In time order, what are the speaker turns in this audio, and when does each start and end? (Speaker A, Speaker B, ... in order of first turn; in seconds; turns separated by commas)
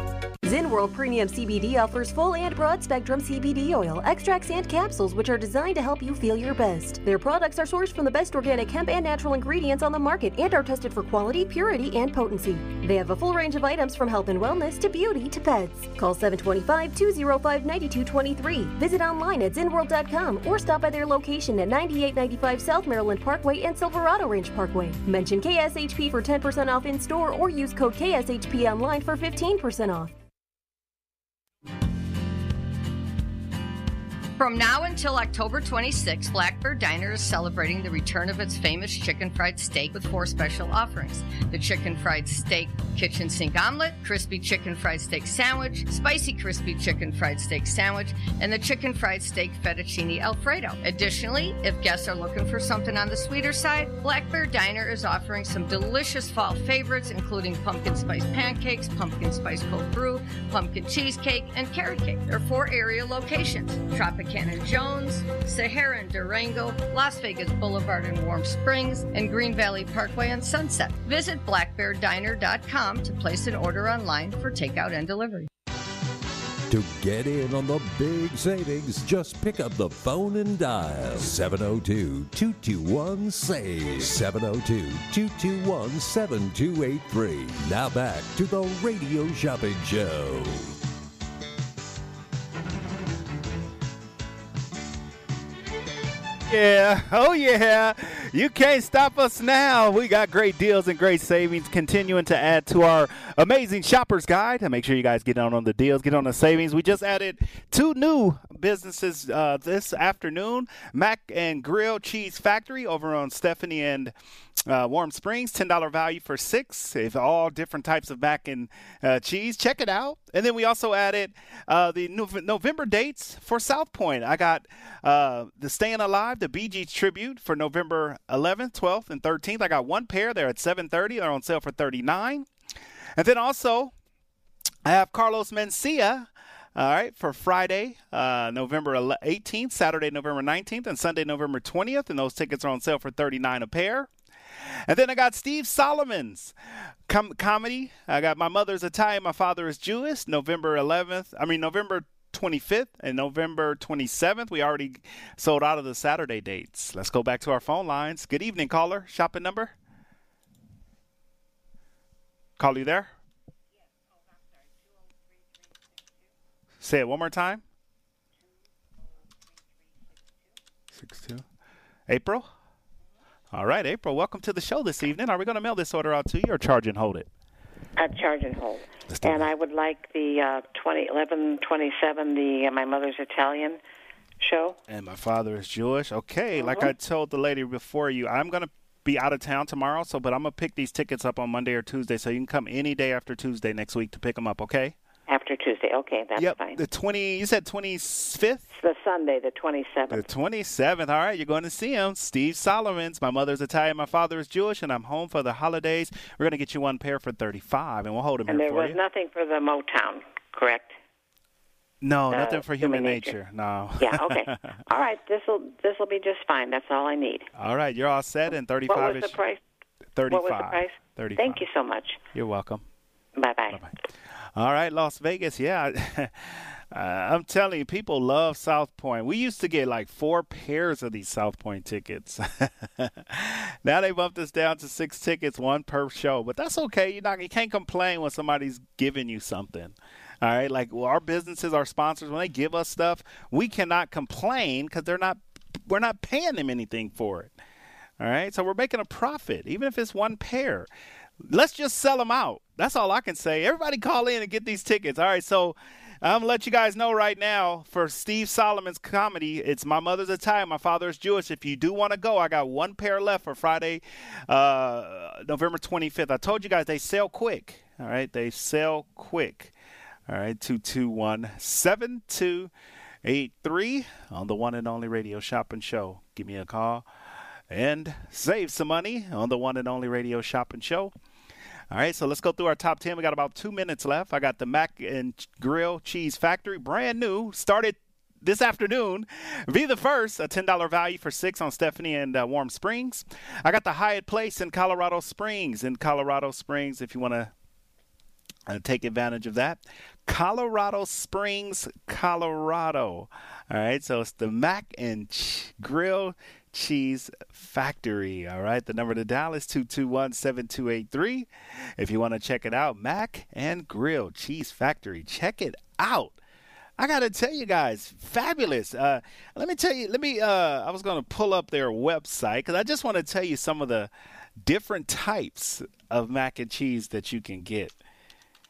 Speaker A: 0.4-30.1, Speaker B: 34.4-75.5, Speaker C: 76.7-90.7, Speaker D: 96.5-114.1, Speaker D: 114.7-132.5, Speaker D: 133.2-133.9, Speaker D: 134.8-144.1, Speaker D: 144.9-146.6, Speaker D: 147.1-159.7, Speaker D: 162.6-163.1, Speaker D: 166.8-167.6, Speaker D: 170.9-171.4, Speaker D: 172.1-172.5, Speaker D: 173.5-177.3, Speaker E: 178.0-183.8, Speaker D: 179.1-179.5, Speaker E: 184.4-184.8, Speaker D: 184.9-194.9, Speaker E: 186.6-186.9, Speaker E: 195.3-196.8, Speaker D: 196.4-198.7, Speaker E: 198.7-200.3, Speaker D: 200.1-209.0, Speaker E: 208.5-210.9, Speaker D: 212.0-214.8, Speaker E: 212.3-213.3, Speaker E: 214.0-217.5, Speaker D: 217.6-219.4, Speaker E: 218.9-219.6, Speaker D: 220.2-221.6, Speaker E: 220.3-222.2, Speaker D: 222.3-222.8, Speaker E: 223.4-223.8, Speaker D: 224.6-247.5, Speaker D: 248.2-250.9, Speaker D: 251.4-269.7, Speaker D: 270.3-272.7, Speaker D: 273.2-277.1, Speaker D: 277.7-281.1, Speaker D: 281.9-297.5, Speaker D: 298.7-316.4, Speaker D: 317.0-327.9